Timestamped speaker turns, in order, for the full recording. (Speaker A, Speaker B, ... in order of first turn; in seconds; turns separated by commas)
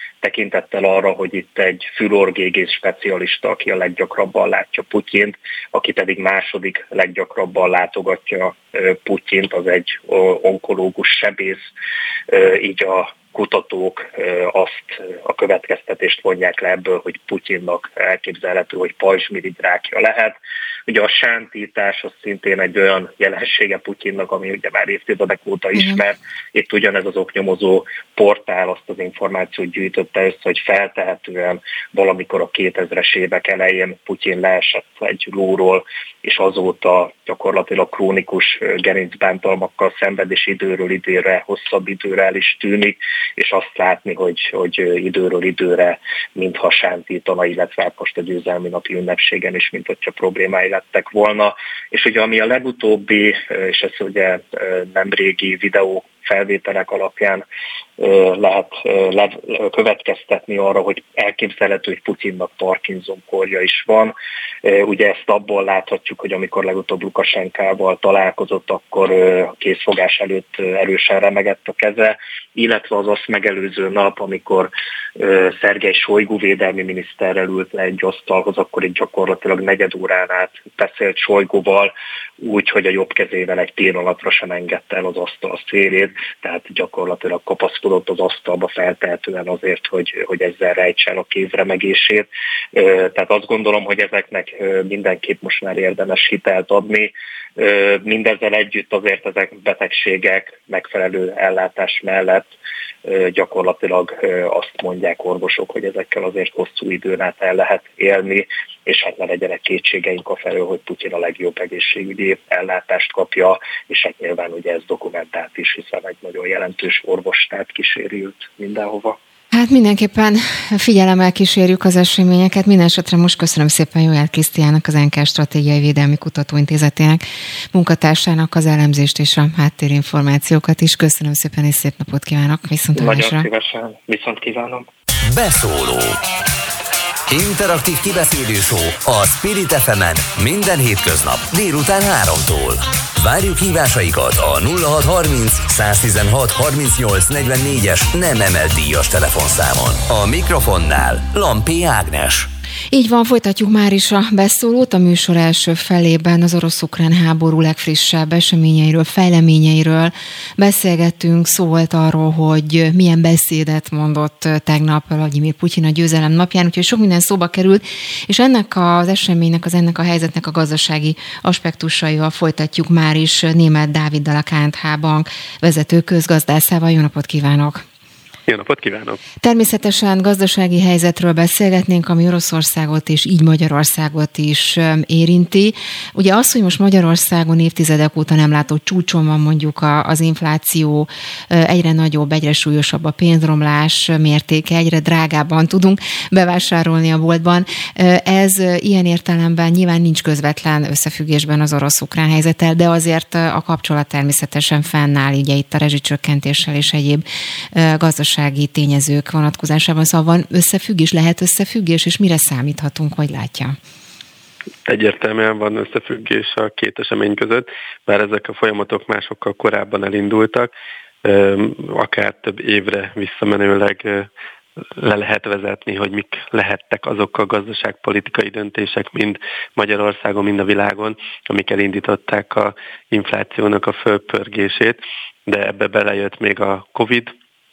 Speaker A: 0.2-11.7, Speaker A: 12.3-20.4, Speaker A: 20.9-57.4, Speaker B: 25.8-26.0, Speaker A: 58.0-102.5, Speaker A: 103.0-119.2, Speaker B: 119.5-133.4, Speaker A: 132.9-134.8, Speaker C: 135.2-136.2, Speaker C: 137.3-152.5, Speaker B: 152.9-177.8, Speaker D: 178.5-179.2, Speaker B: 179.4-213.8, Speaker D: 214.8-220.7, Speaker D: 221.2-224.3, Speaker D: 225.0-237.3